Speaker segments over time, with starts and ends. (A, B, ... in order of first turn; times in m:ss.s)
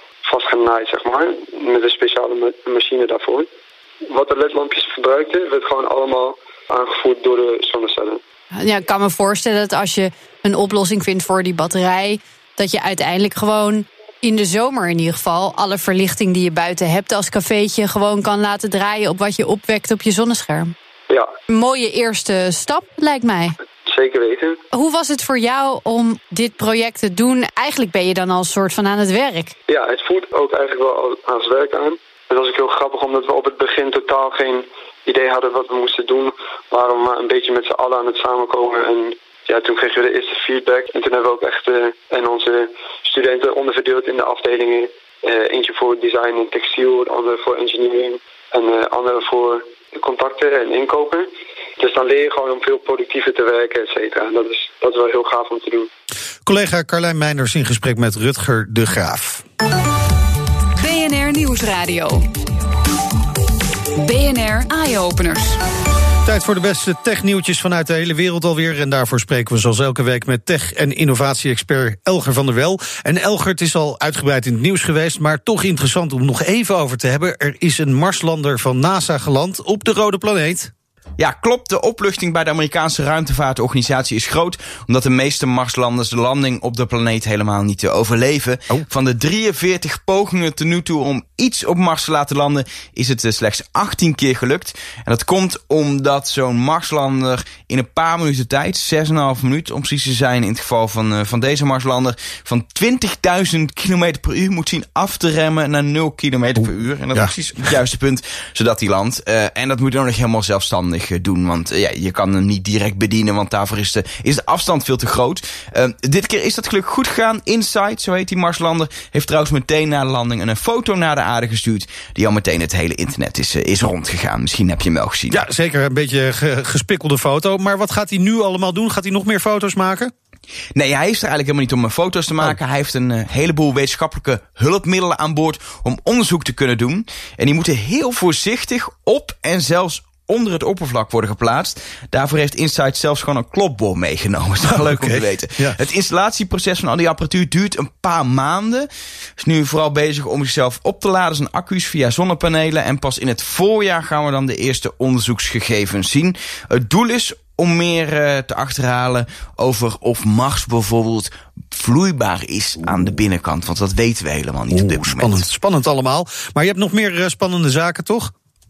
0:00.2-0:03.5 A
0:04.1-0:08.2 A
0:08.6-0:20.7 B
0:21.5-0:23.6 B
0:23.9-0:24.6 A
0:24.7-0:29.5 B
0:29.7-0:51.3 A
0:51.8-0:55.9 A
0:56.4-0:59.4 C
1:00.8-1:02.3 D
1:04.0-1:05.6 D
1:06.2-1:20.7 C
1:21.2-2:05.4 E
1:46.6-1:47.7 C
2:05.3-2:10.1 C
2:10.8-2:45.4 E
2:24.7-2:25.8 C
2:44.7-2:48.3 C